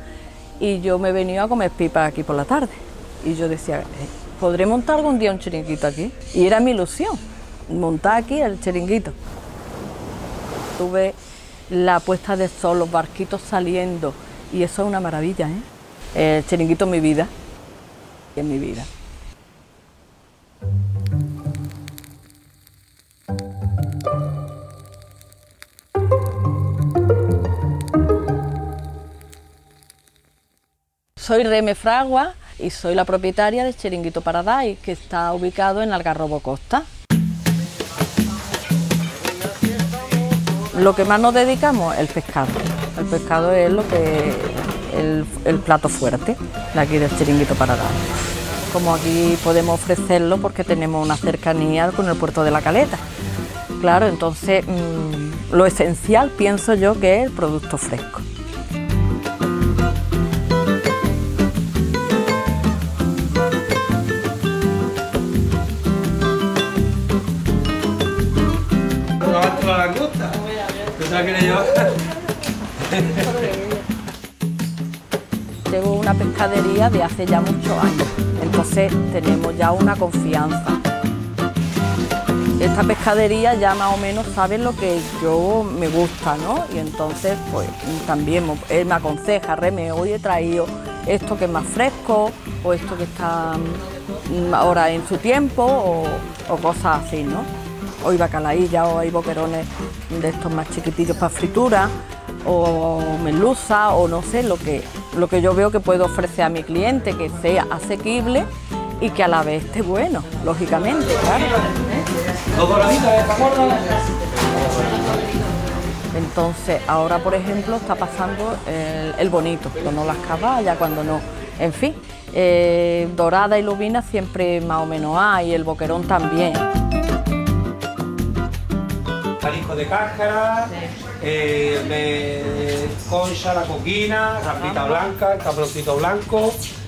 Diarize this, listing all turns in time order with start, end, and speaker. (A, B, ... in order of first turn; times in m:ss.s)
0:00.6-0:09.2 A
0:10.8-0:11.2 A
0:11.7-0:17.3 A
0:18.4-0:18.9 A
0:31.2-0:36.9 A
0:40.6-0:53.0 A
0:53.8-0:58.2 A
1:09.2-1:12.2 B
1:12.9-1:13.5 B
1:15.6-1:20.8 A
1:22.6-1:37.5 A
1:38.0-1:51.9 A
1:52.6-1:54.0 B
1:52.8-1:53.2 A
1:56.1-2:06.6 A
2:09.4-2:16.6 B